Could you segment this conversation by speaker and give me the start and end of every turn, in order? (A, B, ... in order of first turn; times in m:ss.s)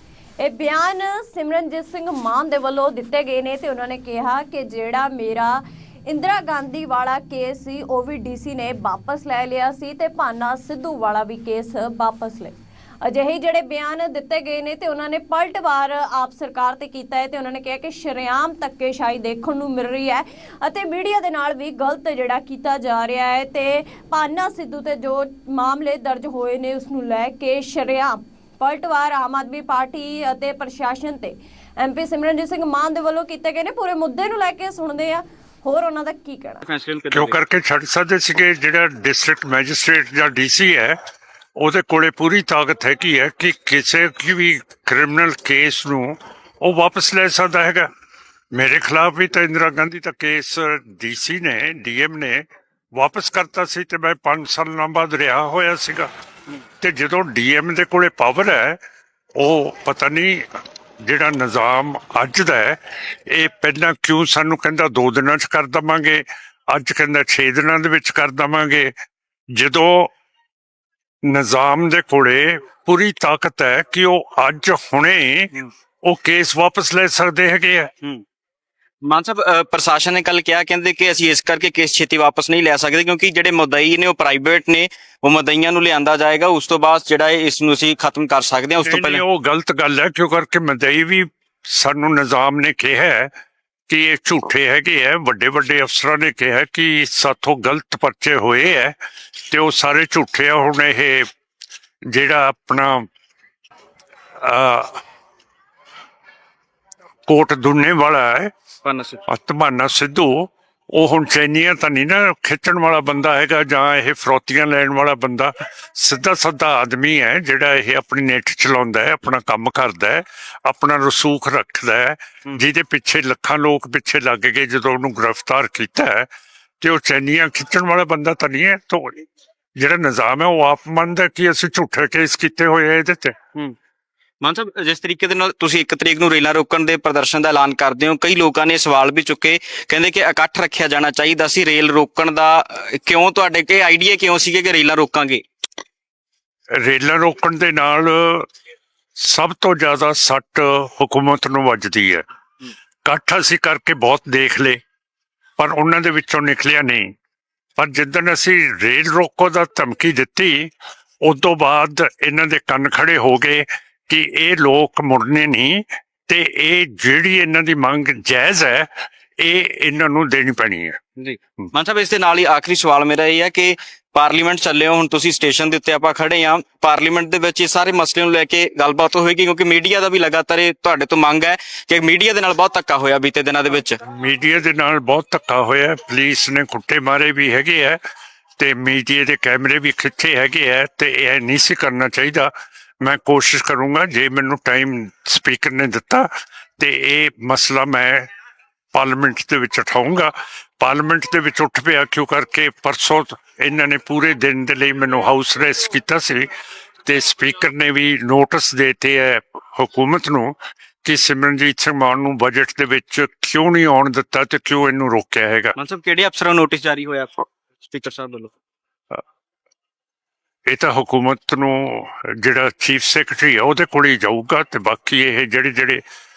0:00.4-0:36.6 A
0:36.6-0:37.4 B
0:37.1-0:41.0 C
0:41.6-0:47.9 C
0:48.5-0:52.4 C
0:53.0-0:56.1 C
0:56.8-0:58.8 C
0:59.4-1:00.4 C
1:01.0-1:08.9 C
1:09.5-1:10.1 C
1:11.2-1:15.5 C
1:16.0-1:17.9 C
1:19.0-1:29.2 B
1:28.8-1:33.3 C
1:33.9-1:39.0 C
1:39.5-1:41.2 C
1:42.1-1:43.1 C
1:44.4-1:45.0 C
1:47.3-1:48.5 C
1:48.8-1:49.2 B
1:49.2-2:06.3 C
2:06.8-2:09.2 C
2:09.8-2:13.4 C
2:14.4-2:25.4 B
2:26.8-2:28.5 C
2:29.2-2:32.2 C
2:33.0-2:34.8 C
2:35.6-2:37.1 C
2:37.8-2:40.7 C
2:41.2-2:51.0 C
2:51.2-3:04.0 B
3:04.0-3:08.0 C
3:08.6-3:12.5 C
3:13.0-3:18.3 C
3:18.9-3:26.5 C
3:27.0-3:35.7 C
3:35.8-3:38.5 B
3:40.7-3:46.0 C